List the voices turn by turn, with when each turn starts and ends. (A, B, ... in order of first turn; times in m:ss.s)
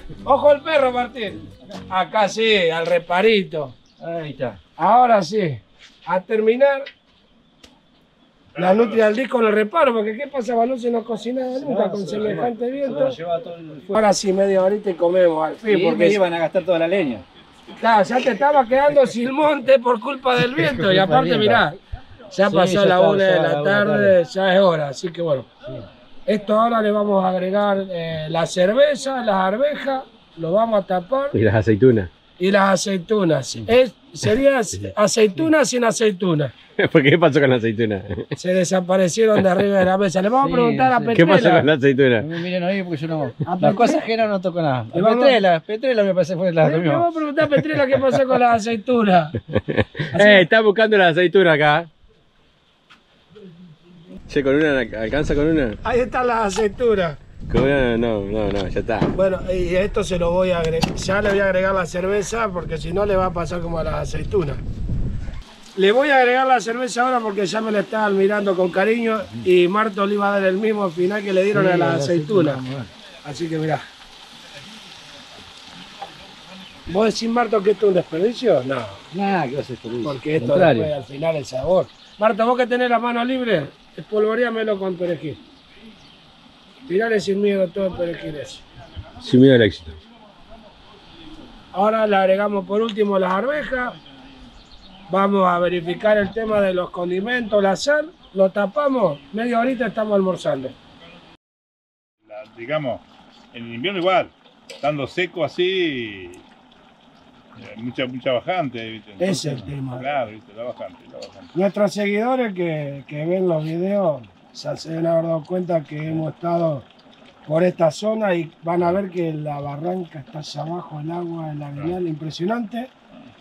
0:00.2-0:03.7 A
0:04.0-0:04.6 B
0:04.8-0:06.9 A
0:08.5-0:09.0 C
0:08.6-0:13.2 A
0:11.6-0:13.9 B
0:13.9-0:16.2 A
0:15.7-0:17.2 B
0:17.8-0:21.8 A
0:20.6-0:21.6 B
0:22.3-0:25.5 A
0:22.4-0:24.2 B
0:26.2-0:31.4 A
0:31.3-0:32.1 D
0:32.4-0:36.5 A
0:36.8-0:38.3 D
0:38.4-0:41.7 A
0:40.4-0:41.6 B
0:41.1-0:42.3 D
0:42.2-0:48.2 B
0:43.4-0:44.1 A
0:44.9-0:45.4 A
0:46.6-0:49.4 A
0:49.5-0:51.9 D
0:50.1-0:50.5 A
0:54.3-0:55.8 D
0:55.8-0:57.2 A
0:57.5-0:59.1 D
0:59.1-1:04.6 A
1:05.8-1:12.6 A
1:11.5-1:12.9 B
1:13.2-1:13.8 A
1:16.9-1:19.0 A
1:19.1-1:20.9 B
1:20.0-1:25.4 A
1:26.8-1:28.6 A
1:29.2-1:29.9 D
1:31.7-1:34.0 A
1:35.1-1:40.7 A
1:42.2-1:46.4 C
1:47.6-1:51.5 C
1:49.2-1:50.1 A
1:51.5-1:56.8 A
1:57.4-2:02.9 A